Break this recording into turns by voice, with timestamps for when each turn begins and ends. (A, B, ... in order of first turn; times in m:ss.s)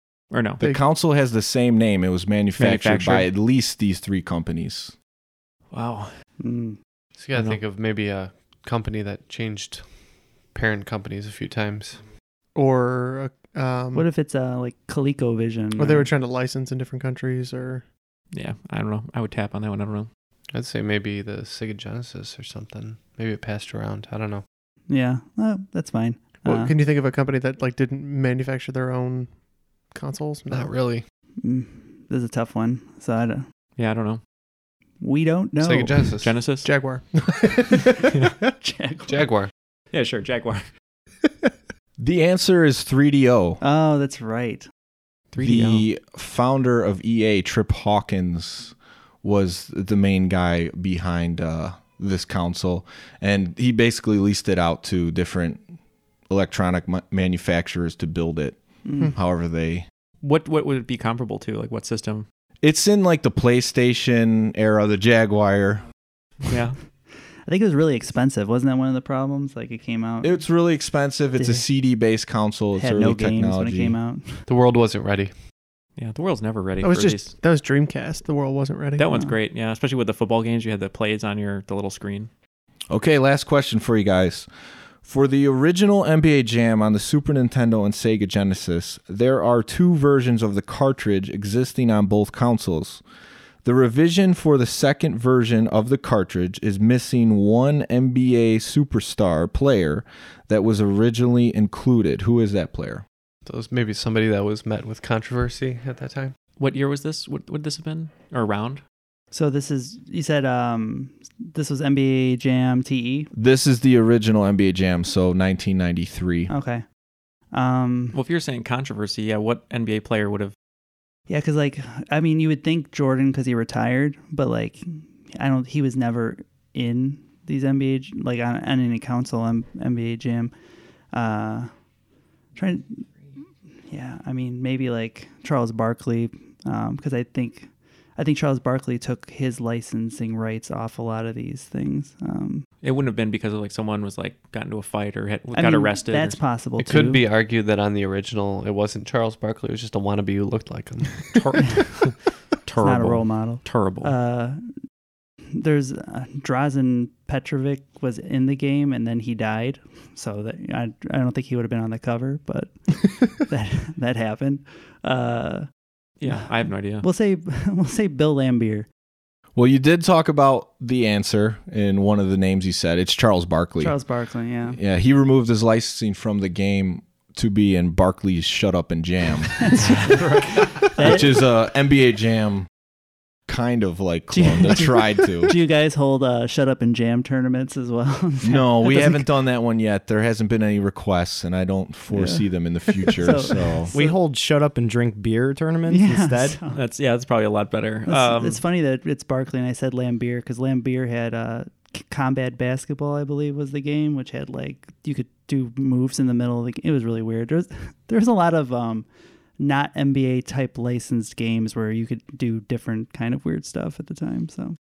0:00.3-0:00.6 A
0:00.6-0:04.9 B
0:02.6-0:03.3 A
0:05.7-0:06.1 A
0:06.4-0:06.8 C
0:07.2-0:09.9 D
0:07.3-0:07.6 A
0:10.5-0:12.0 D
0:12.5-0:14.0 E
0:13.9-0:16.1 C
0:15.8-0:17.8 E
0:18.3-0:20.1 A
0:20.5-0:24.4 D
0:24.9-0:26.7 C
0:26.4-0:29.3 E
0:29.9-0:30.8 E
0:30.5-0:31.0 D
0:31.4-0:33.4 C
0:33.8-0:34.2 A
0:35.0-0:36.0 C
0:35.6-0:36.3 D
0:36.2-0:36.7 A
0:36.6-0:38.0 E
0:38.6-0:39.3 C
0:39.1-0:39.5 D
0:39.9-0:40.6 A
0:42.0-0:43.6 B
0:43.6-0:44.7 C
0:45.3-0:45.8 A
0:45.4-0:55.6 B
0:56.3-0:58.6 B
0:58.8-0:59.1 C
0:59.1-0:59.8 B
1:00.2-1:02.2 A
1:02.6-1:05.8 B
1:06.4-1:06.8 A
1:07.4-1:10.4 C
1:10.2-1:14.0 B
1:11.4-1:11.6 C
1:12.8-1:14.4 C
1:14.5-1:15.3 D
1:16.0-1:17.3 A
1:16.8-1:19.1 E
1:19.0-1:22.3 A
1:19.1-1:19.4 C
1:22.9-1:24.5 B
1:25.0-1:33.0 B
1:33.6-1:43.0 B
1:43.4-1:46.3 D
1:46.6-1:48.8 A
1:49.3-1:53.3 C
1:53.3-1:56.5 B
1:56.5-1:56.8 C
1:57.5-1:58.2 C
1:58.1-2:00.5 A
2:01.3-2:10.5 C
2:11.1-2:11.7 C
2:12.6-2:13.1 C
2:13.9-2:22.6 C
2:22.8-2:26.4 A
2:25.5-2:27.2 C
2:26.8-2:31.8 D
2:31.3-2:32.1 A
2:32.6-2:34.1 A
2:32.8-2:34.7 C
2:35.5-2:45.7 C
2:46.2-2:47.0 A
2:46.2-2:48.9 C
2:49.5-2:54.0 B
2:53.8-2:54.8 C
2:54.7-3:00.0 B
2:59.7-3:00.2 C
3:00.9-3:02.7 B
3:00.9-3:01.4 C
3:03.5-3:05.5 B
3:04.3-3:09.3 C
3:08.4-3:13.9 B
3:12.1-3:12.4 C
3:13.1-3:14.2 C
3:13.9-3:16.6 F
3:15.9-3:16.8 C
3:16.7-3:18.6 A
3:18.0-3:29.0 C
3:29.6-3:34.8 C